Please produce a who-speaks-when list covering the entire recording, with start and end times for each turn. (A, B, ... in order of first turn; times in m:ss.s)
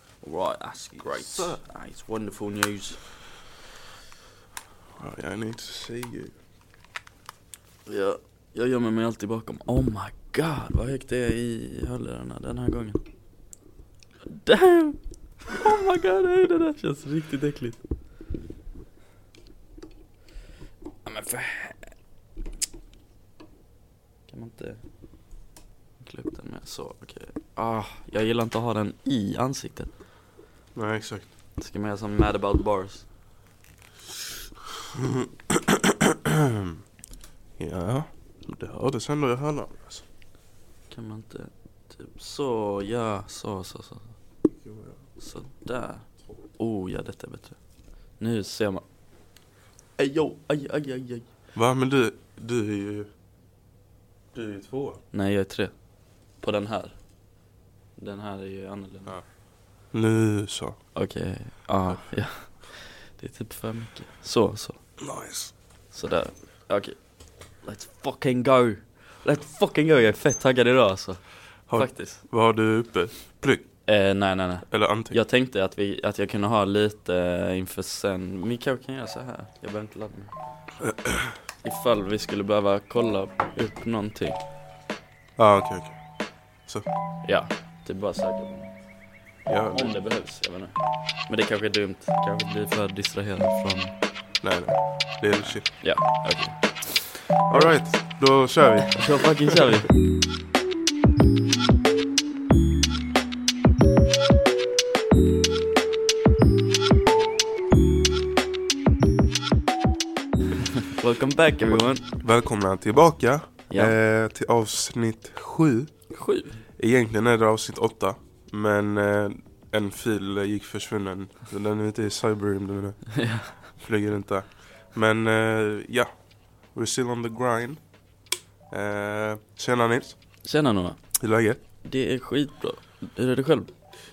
0:00.2-0:03.0 A
0:01.0-0:01.6 B
0:05.0-0:06.4 B
0:07.9-0:13.0 A
0:14.3-0:17.8 A
0:21.0-0:21.9 A
0:24.3-0:24.8 A
0:26.0-0:29.9 A
0:30.8-0:31.3 B
0:31.6-0:33.1 A
0:34.9-0:36.8 B
0:37.6-0:40.0 B
0:40.9-0:44.1 A
0:44.6-0:45.0 B
0:45.2-0:47.6 A
0:48.2-0:48.8 A
0:50.0-0:51.3 A
0:51.6-0:53.1 B
0:54.3-0:55.0 B
0:55.1-0:55.7 A
0:56.4-0:57.0 A
0:58.0-0:59.2 A
0:59.9-1:00.8 B
1:01.0-1:04.8 A
1:05.0-1:05.5 B
1:05.9-1:07.0 A
1:07.6-1:12.2 A
1:11.7-1:13.7 B
1:13.9-1:20.3 A
1:14.7-1:15.2 B
1:20.8-1:21.3 B
1:21.6-1:24.4 A
1:25.4-1:26.0 B
1:27.2-1:28.7 A
1:29.5-1:30.0 B
1:29.7-1:33.9 A
1:34.4-1:35.8 B
1:35.4-1:37.7 A
1:37.5-1:39.6 B
1:39.0-1:39.9 A
1:50.9-1:52.0 A
1:51.7-1:55.9 B
1:56.1-1:56.6 A
1:56.8-2:06.1 B
2:03.1-2:03.6 A
2:06.7-2:07.8 B
2:08.7-2:10.2 B
2:10.4-2:11.0 A
2:11.2-2:11.6 B
2:11.8-2:13.7 A